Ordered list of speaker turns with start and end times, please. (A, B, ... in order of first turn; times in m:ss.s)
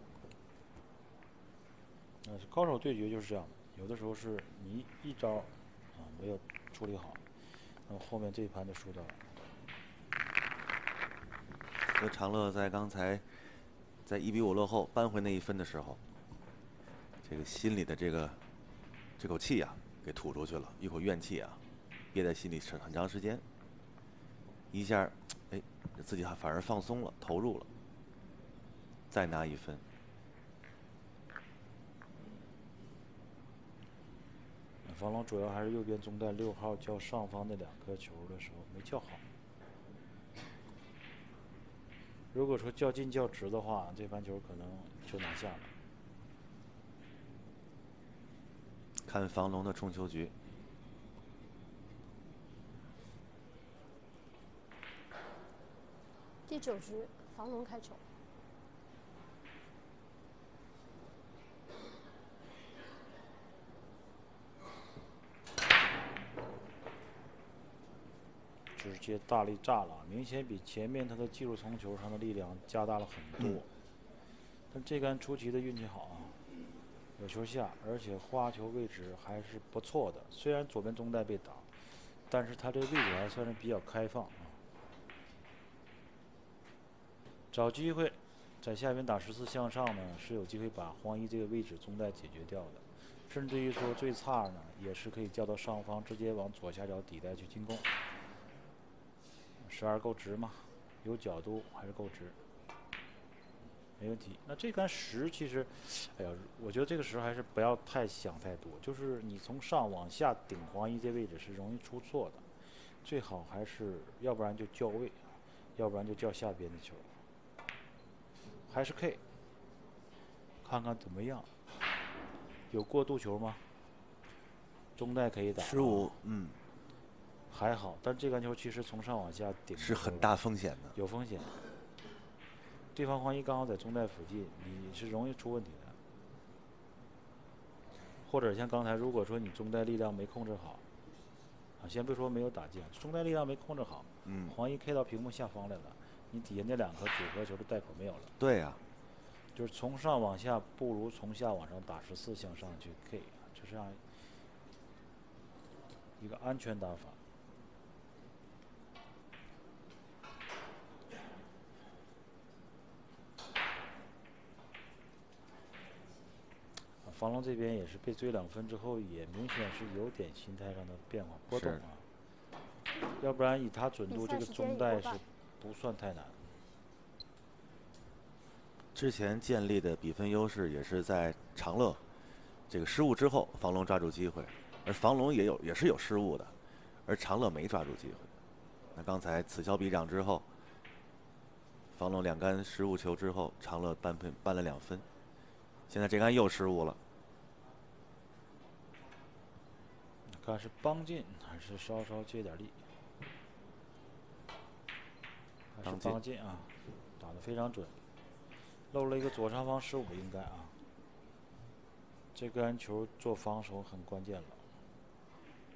0:02.2-0:07.2 A
0:07.9-0:09.3 A
0:11.9-0:13.3 B
0:14.0-0:16.0 B
0:17.2-0:18.4 B
0:19.2-0:21.6 B
0:22.1-0:23.4 B
0:24.7-0:27.7 B
0:29.1-0:29.8 B
0:34.8-0:39.3 A
0:42.3-0:45.7 A
0:49.0-0:50.3 B
0:56.5-0:58.0 C
1:08.8-1:13.7 A
1:14.7-1:16.4 A
1:17.2-1:21.7 A
1:22.3-1:24.6 A
1:27.5-1:37.9 A
1:39.6-1:42.4 A
1:44.0-1:52.5 A
1:53.0-1:57.1 A
1:58.7-1:59.2 A
2:00.6-2:01.5 A
2:02.7-2:03.6 A
2:05.0-2:06.1 A
2:05.6-2:06.6 B
2:07.5-2:10.3 A
2:09.8-2:11.0 B
2:10.9-2:11.6 A
2:12.9-2:16.0 A
2:18.2-2:20.8 A
2:21.8-2:28.3 A
2:24.2-2:24.6 B
2:28.4-2:28.8 B
2:29.5-2:34.0 A
2:36.2-2:37.2 A
2:47.0-2:52.0 A
2:51.5-2:51.8 B
2:53.2-2:56.5 A
2:54.1-2:55.2 C
2:59.0-3:02.0 B
3:02.7-3:06.5 B
3:07.1-3:08.3 B
3:08.9-3:10.5 B
3:11.9-3:15.1 B
3:15.9-3:17.0 B
3:20.3-3:22.8 A
3:25.7-3:28.0 A
3:25.8-3:26.2 B
3:28.9-3:30.7 A
3:32.3-3:34.6 A